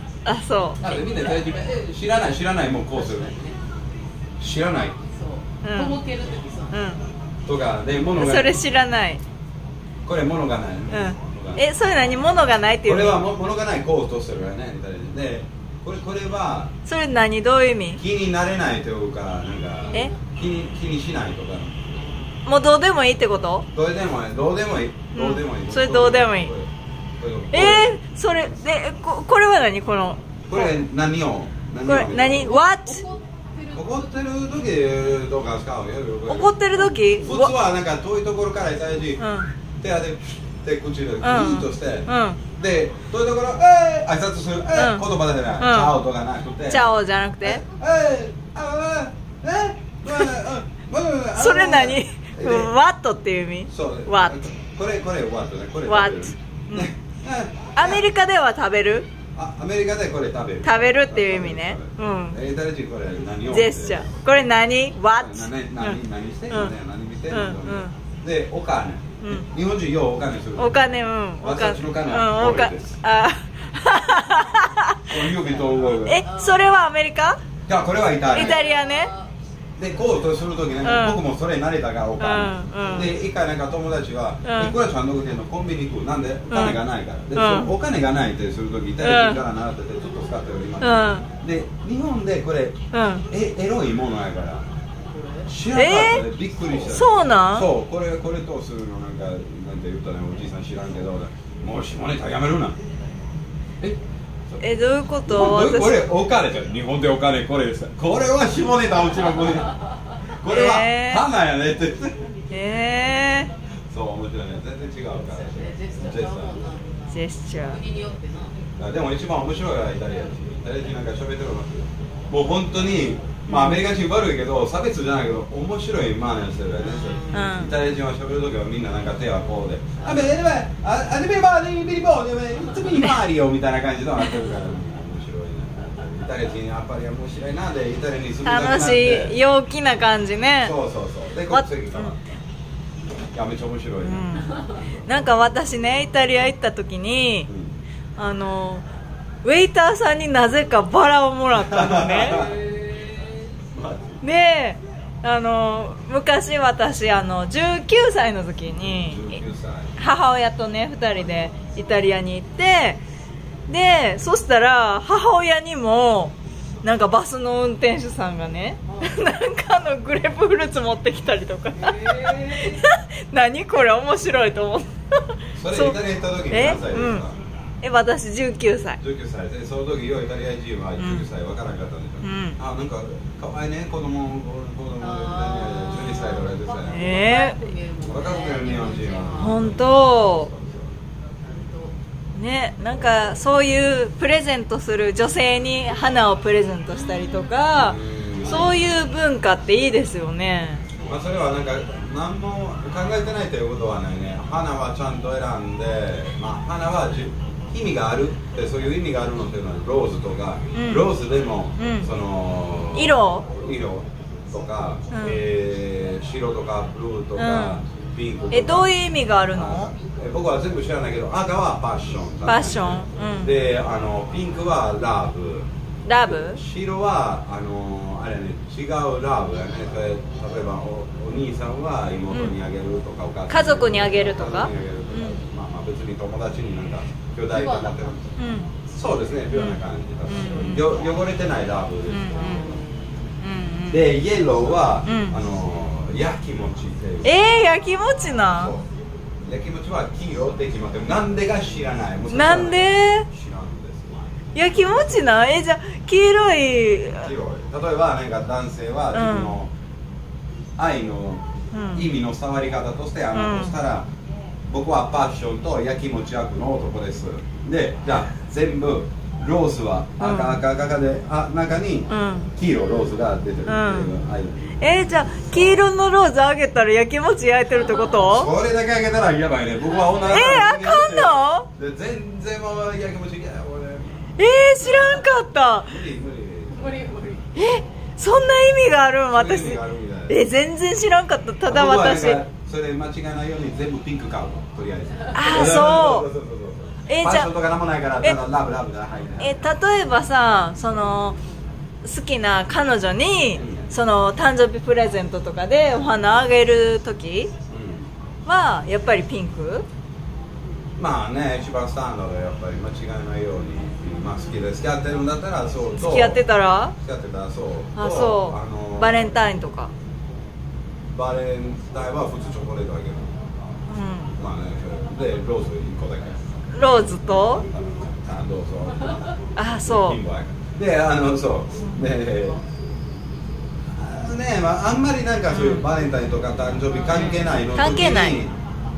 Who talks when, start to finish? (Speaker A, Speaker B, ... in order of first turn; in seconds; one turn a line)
Speaker A: 0.2-0.8
Speaker B: 0.8-3.4
Speaker C: 0.8-1.4
Speaker C: 2.9-3.6
Speaker B: 4.4-5.0
Speaker C: 5.0-6.8
Speaker A: 5.6-6.0
Speaker A: 6.7-7.0
Speaker B: 7.5-8.6
Speaker A: 8.2-9.2
Speaker B: 10.1-11.7
Speaker A: 10.9-13.2
Speaker B: 12.8-16.7
Speaker A: 16.9-18.0
Speaker B: 18.0-21.9
Speaker A: 22.4-23.7
Speaker B: 23.7-27.9
Speaker A: 25.1-26.5
Speaker A: 27.5-30.8
Speaker B: 30.5-32.6
Speaker A: 31.8-33.0
Speaker C: 32.4-34.1
Speaker B: 33.7-39.3
Speaker A: 36.3-37.5
Speaker A: 39.2-39.5
Speaker B: 39.8-46.9
Speaker A: 41.2-42.4
Speaker A: 44.7-45.0
Speaker A: 45.6-46.0
Speaker A: 46.7-47.6
Speaker B: 47.4-52.7
Speaker A: 50.0-50.3
Speaker A: 51.4-54.4
Speaker B: 53.7-58.0
Speaker A: 55.9-56.9
Speaker A: 57.7-59.1
Speaker B: 59.3-64.4
Speaker A: 60.6-62.4
Speaker A: 63.5-66.0
Speaker B: 65.1-73.0
Speaker A: 67.3-67.9
Speaker A: 70.5-75.3
Speaker B: 75.1-76.2
Speaker C: 75.4-76.8
Speaker A: 76.0-77.4
Speaker B: 77.7-78.6
Speaker C: 78.2-80.4
Speaker A: 78.3-79.1
Speaker B: 79.8-92.8
Speaker A: 80.8-81.2
Speaker A: 82.2-83.1
Speaker C: 82.8-83.1
Speaker A: 84.4-84.7
Speaker A: 86.5-86.8
Speaker A: 87.3-87.7
Speaker A: 89.0-89.4
Speaker A: 90.8-91.2
Speaker A: 92.9-93.2
Speaker B: 93.3-94.6
Speaker C: 95.1-95.5
Speaker B: 95.5-102.8
Speaker A: 95.7-97.7
Speaker A: 104.6-106.1
Speaker B: 105.2-109.8
Speaker B: 110.4-112.3
Speaker A: 110.4-111.2
Speaker A: 112.5-113.5
Speaker B: 113.9-116.6
Speaker C: 115.2-118.6
Speaker A: 117.1-117.8
Speaker B: 118.8-139.4
Speaker A: 123.5-123.8
Speaker C: 126.8-127.6
Speaker A: 127.3-127.7
Speaker C: 130.0-130.3
Speaker A: 134.2-134.5
Speaker A: 138.4-140.7
Speaker B: 140.6-142.2
Speaker A: 141.5-142.1
Speaker B: 143.3-145.1
Speaker A: 144.0-147.5
Speaker B: 147.5-147.8
Speaker A: 148.2-148.8
Speaker A: 149.4-152.4
Speaker B: 151.5-152.6
Speaker C: 152.2-153.5
Speaker B: 153.7-154.2
Speaker A: 154.2-159.3
Speaker B: 158.8-159.9
Speaker A: 160.0-163.0
Speaker A: 163.7-174.9
Speaker C: 171.8-172.8
Speaker B: 175.6-177.4
Speaker A: 175.7-175.9
Speaker A: 176.5-177.2
Speaker A: 177.8-179.0
Speaker B: 179.0-187.1
Speaker A: 181.0-181.3
Speaker A: 182.2-182.6
Speaker C: 185.0-189.6
Speaker A: 186.9-187.7
Speaker B: 188.0-190.9
Speaker A: 189.4-190.5
Speaker C: 191.4-191.9
Speaker A: 192.3-200.8
Speaker B: 197.7-198.8
Speaker B: 201.0-218.9
Speaker A: 210.7-211.1
Speaker A: 211.8-212.1
Speaker A: 212.9-213.4
Speaker A: 215.1-215.4
Speaker A: 217.3-217.8
Speaker A: 218.5-219.9
Speaker B: 219.5-225.7
Speaker A: 222.4-223.5
Speaker A: 226.0-226.6
Speaker B: 226.2-238.2
Speaker A: 233.5-235.4
Speaker C: 237.5-238.4
Speaker A: 238.4-238.7
Speaker B: 238.9-242.8
Speaker A: 239.5-240.9
Speaker A: 242.1-242.7
Speaker C: 242.4-242.9
Speaker A: 243.4-244.1
Speaker B: 243.9-247.4
Speaker A: 245.0-245.4
Speaker A: 247.2-248.8
Speaker B: 248.5-248.8
Speaker B: 249.4-255.3
Speaker A: 252.3-253.3
Speaker A: 254.5-257.3
Speaker B: 257.2-259.7
Speaker A: 259.1-259.6
Speaker B: 260.8-264.1
Speaker A: 261.7-262.1
Speaker A: 263.3-263.8
Speaker B: 264.7-275.8
Speaker A: 270.2-270.6
Speaker A: 272.1-272.5
Speaker A: 273.7-274.1
Speaker A: 274.8-278.5
Speaker C: 277.8-278.1
Speaker B: 278.2-284.3
Speaker C: 279.9-280.5
Speaker A: 280.2-281.7
Speaker A: 284.4-285.9
Speaker B: 284.8-285.2
Speaker B: 285.8-287.1
Speaker C: 286.7-287.5
Speaker A: 287.5-292.4
Speaker B: 289.3-290.4
Speaker B: 291.6-299.6
Speaker C: 295.2-295.9
Speaker A: 295.3-296.3
Speaker A: 297.1-297.5
Speaker A: 299.4-301.4
Speaker A: 302.0-307.5
Speaker B: 303.5-303.9
Speaker B: 307.7-308.1
Speaker A: 308.4-309.9
Speaker B: 311.0-316.4
Speaker A: 315.9-316.9
Speaker B: 317.0-319.4
Speaker A: 317.9-319.9
Speaker B: 321.1-323.4
Speaker A: 323.9-324.3
Speaker B: 324.4-329.2
Speaker A: 326.7-327.6
Speaker A: 329.6-330.2
Speaker B: 329.8-332.6
Speaker B: 333.9-338.5
Speaker A: 335.5-335.9
Speaker A: 337.1-338.4